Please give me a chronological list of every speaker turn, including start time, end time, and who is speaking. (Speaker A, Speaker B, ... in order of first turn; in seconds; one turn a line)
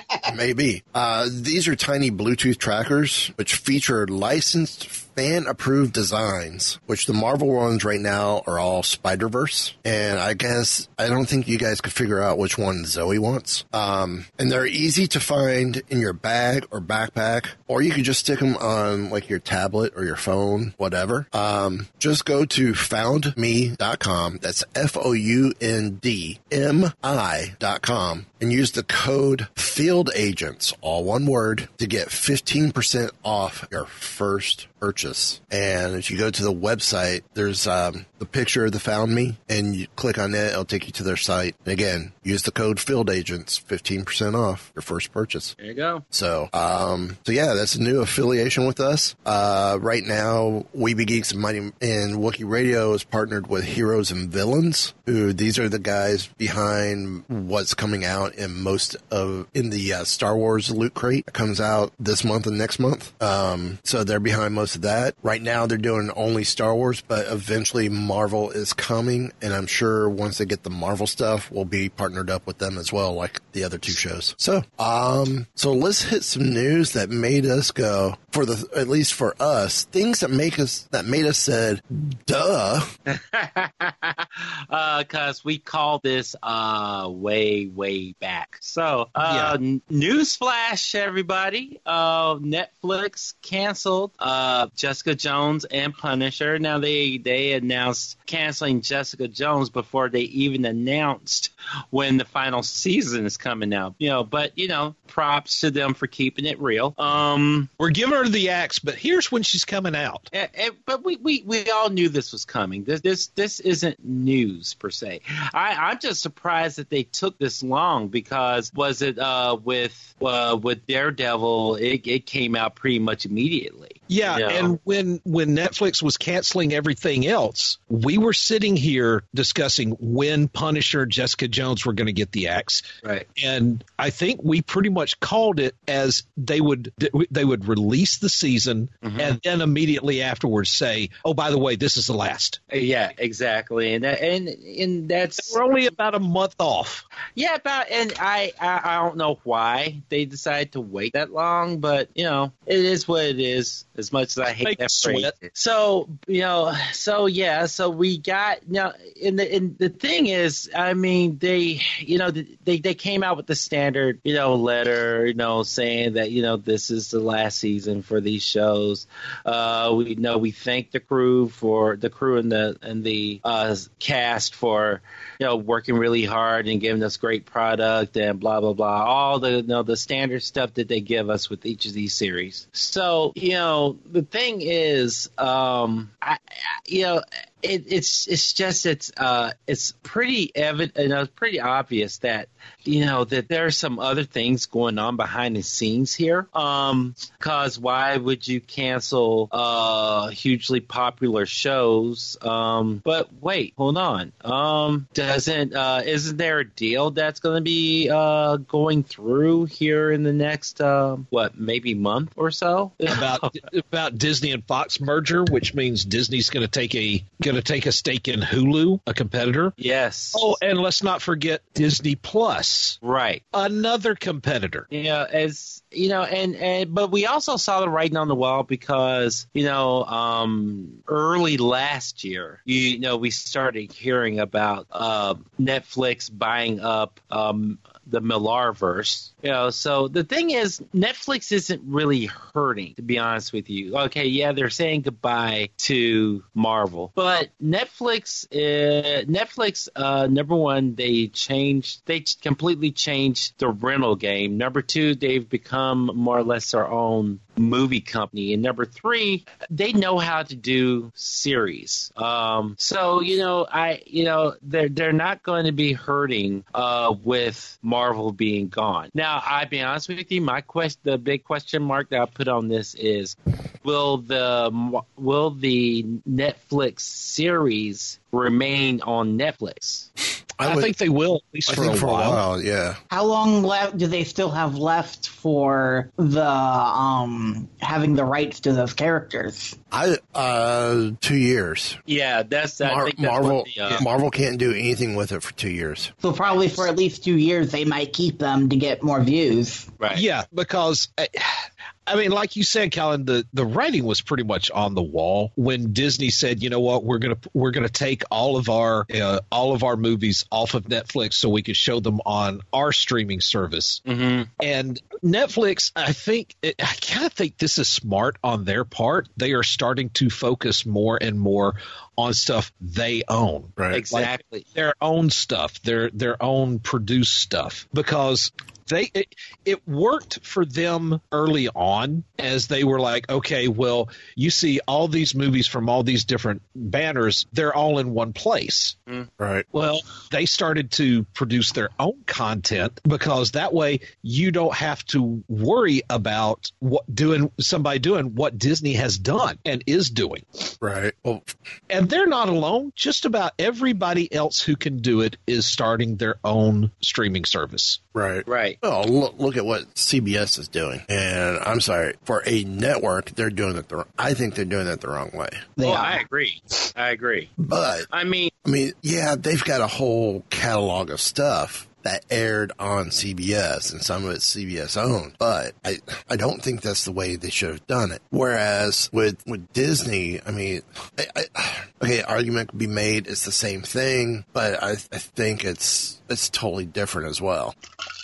Speaker A: 0.3-45.5
Speaker B: 45.6-46.0
Speaker A: 46.1-82.9
Speaker B: 83.1-107.7
Speaker C: 89.2-89.5
Speaker C: 107.8-110.3
Speaker B: 110.3-124.7
Speaker C: 124.1-142.6
Speaker B: 139.0-139.4
Speaker B: 142.7-145.6
Speaker C: 145.4-147.0
Speaker B: 147.4-213.6
Speaker C: 154.6-155.3
Speaker C: 213.1-219.7
Speaker B: 219.8-220.5
Speaker C: 220.3-223.0
Speaker B: 223.0-223.4
Speaker C: 223.5-224.9
Speaker B: 224.9-280.1
Speaker A: 280.6-280.9
Speaker C: 280.6-282.4
Speaker A: 281.7-283.0
Speaker D: 283.1-289.8
Speaker A: 289.9-292.0
Speaker B: 292.1-294.0
Speaker A: 292.8-296.1
Speaker D: 296.2-299.9
Speaker B: 296.4-296.8
Speaker C: 300.1-314.0
Speaker B: 314.1-314.5
Speaker C: 314.6-338.9
Speaker A: 323.8-324.0
Speaker B: 323.9-324.6
Speaker A: 339.4-339.6
Speaker C: 339.7-350.7
Speaker A: 350.8-351.5
Speaker C: 351.9-358.0
Speaker A: 358.1-365.7
Speaker B: 358.4-358.8
Speaker D: 365.8-366.2
Speaker B: 365.8-367.5
Speaker A: 367.6-368.1
Speaker B: 368.1-368.5
Speaker A: 368.6-387.7